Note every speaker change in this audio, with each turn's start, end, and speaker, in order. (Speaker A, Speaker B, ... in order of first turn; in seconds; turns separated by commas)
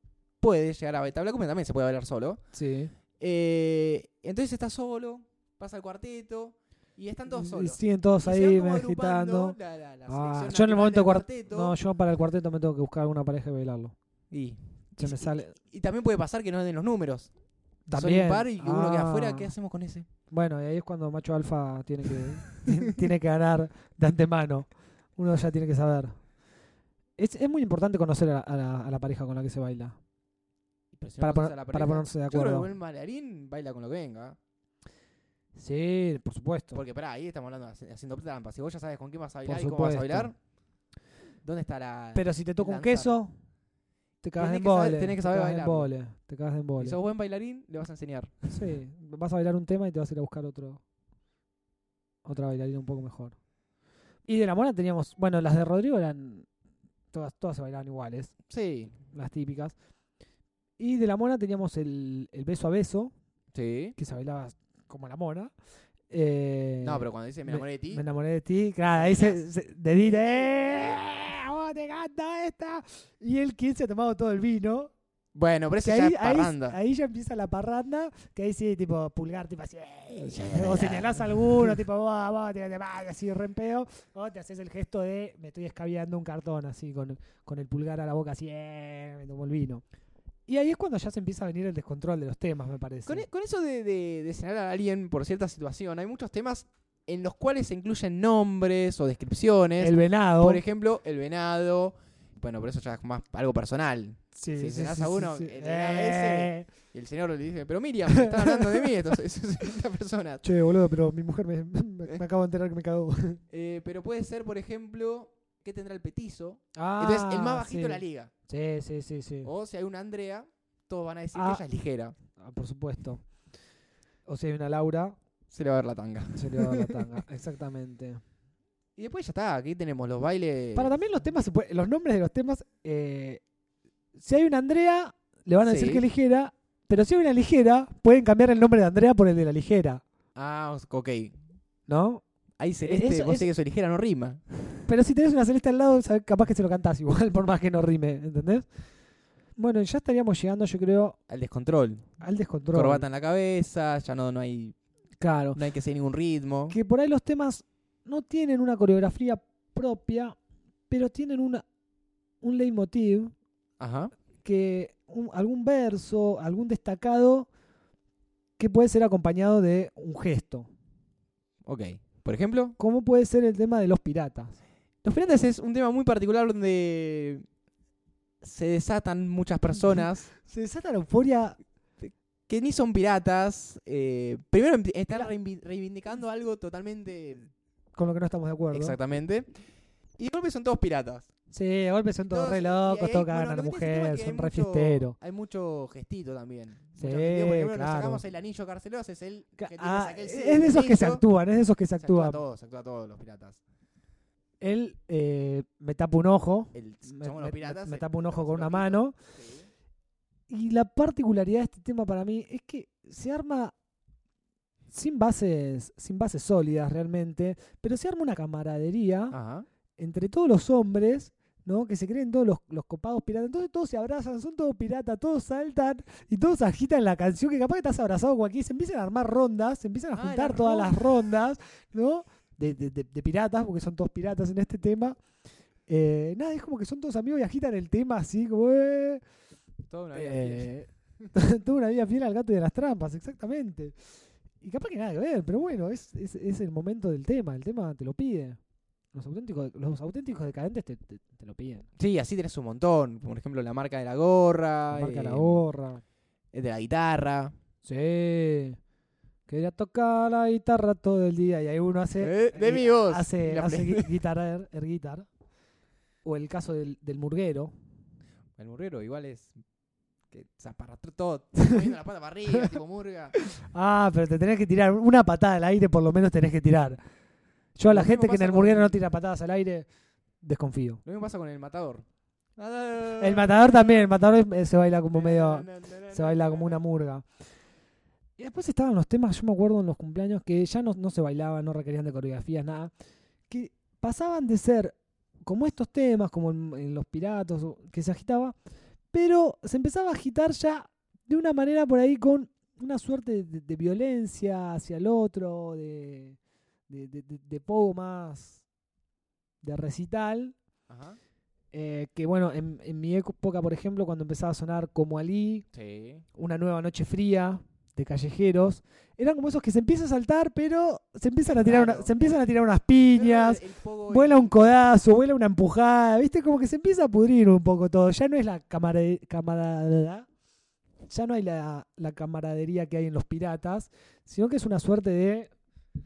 Speaker A: 0.4-2.4, Speaker B: 2.5-2.9, Speaker A: 3.2-11.8, Speaker B: 7.3-9.6, Speaker B: 10.1-13.9, Speaker A: 14.3-17.3, Speaker B: 15.0-15.6, Speaker B: 17.9-19.5, Speaker A: 17.9-20.1, Speaker B: 20.3-26.1, Speaker B: 27.2-30.0, Speaker A: 30.9-34.4, Speaker B: 31.2-32.7, Speaker B: 35.6-36.8, Speaker A: 36.7-40.3, Speaker B: 39.5-40.3, Speaker A: 41.4-43.1, Speaker B: 42.1-43.3, Speaker B: 44.2-47.0, Speaker A: 44.4-45.9, Speaker A: 46.8-48.3, Speaker B: 48.5-50.8, Speaker B: 52.2-53.4, Speaker B: 54.3-56.5, Speaker B: 57.1-58.3, Speaker A: 58.5-58.9, Speaker B: 59.1-59.8, Speaker B: 60.8-63.1, Speaker A: 63.5-64.0, Speaker B: 64.0-65.5, Speaker B: 66.1-74.9, Speaker A: 66.8-68.0, Speaker A: 69.0-69.4, Speaker A: 75.3-76.8, Speaker B: 75.8-89.8, Speaker A: 80.1-81.8, Speaker B: 90.5-93.3, Speaker A: 93.0-110.4, Speaker B: 99.8-100.6, Speaker B: 104.3-106.7, Speaker B: 108.1-108.9, Speaker B: 110.4-113.4, Speaker A: 113.5-118.3, Speaker B: 116.8-119.5, Speaker A: 119.4-122.2, Speaker B: 121.3-121.6, Speaker B: 122.4-123.2, Speaker B: 124.3-125.2, Speaker A: 125.5-127.0, Speaker B: 126.4-128.2, Speaker A: 129.0-130.9, Speaker B: 130.8-133.4, Speaker B: 134.2-140.0, Speaker A: 135.6-136.1, Speaker A: 140.4-141.4, Speaker B: 141.9-142.2, Speaker A: 142.6-144.4, Speaker B: 142.8-143.5, Speaker B: 144.9-148.7, Speaker B: 149.6-151.2, Speaker A: 151.3-152.1, Speaker B: 152.2-153.1, Speaker A: 152.7-154.8, Speaker B: 155.2-155.6, Speaker A: 155.6-156.8, Speaker B: 156.7-160.4, Speaker B: 160.9-161.6, Speaker B: 162.4-163.3, Speaker A: 163.8-164.1, Speaker B: 164.4-167.5, Speaker B: 168.6-170.7, Speaker A: 171.7-172.8, Speaker B: 172.8-174.6, Speaker A: 175.0-177.5, Speaker A: 178.4-180.3, Speaker B: 180.4-181.6, Speaker A: 182.0-187.5, Speaker B: 187.9-189.0, Speaker A: 188.7-189.5, Speaker A: 190.2-191.3, Speaker B: 191.5-195.2, Speaker A: 192.3-201.2, Speaker B: 197.0-198.2, Speaker B: 199.6-202.4, Speaker A: 202.0-203.6, Speaker B: 204.6-209.2, Speaker A: 206.7-209.7, Speaker B: 210.5-213.7, Speaker B: 214.9-219.4, Speaker A: 219.3-219.7, Speaker B: 220.0-235.2, Speaker A: 230.1-231.3, Speaker B: 235.9-239.2, Speaker A: 239.9-240.7, Speaker B: 240.1-244.0, Speaker B: 244.6-248.6, Speaker B: 249.1-251.9, Speaker A: 252.0-255.6, Speaker B: 254.9-256.0, Speaker A: 256.5-257.5, Speaker B: 257.9-258.8, Speaker B: 259.5-265.3, Speaker A: 262.2-264.1, Speaker B: 266.2-267.7, Speaker A: 268.6-269.5, Speaker A: 270.3-273.3, Speaker B: 273.4-277.0, Speaker B: 277.8-279.9, Speaker A: 277.9-279.0, Speaker B: 280.4-281.0, Speaker A: 281.1-282.1, Speaker A: 282.6-284.2, Speaker B: 283.2-287.2, Speaker A: 285.1-286.8, Speaker B: 288.4-292.9, Speaker B: 293.5-298.6, Speaker B: 299.1-306.4, Speaker B: 306.9-308.6, Speaker B: 309.6-310.6, Speaker A: 310.9-311.2, Speaker B: 311.7-315.6, Speaker A: 315.7-316.2, Speaker B: 316.4-330.3, Speaker A: 321.5-322.3, Speaker A: 323.1-324.9, Speaker B: 331.1-335.5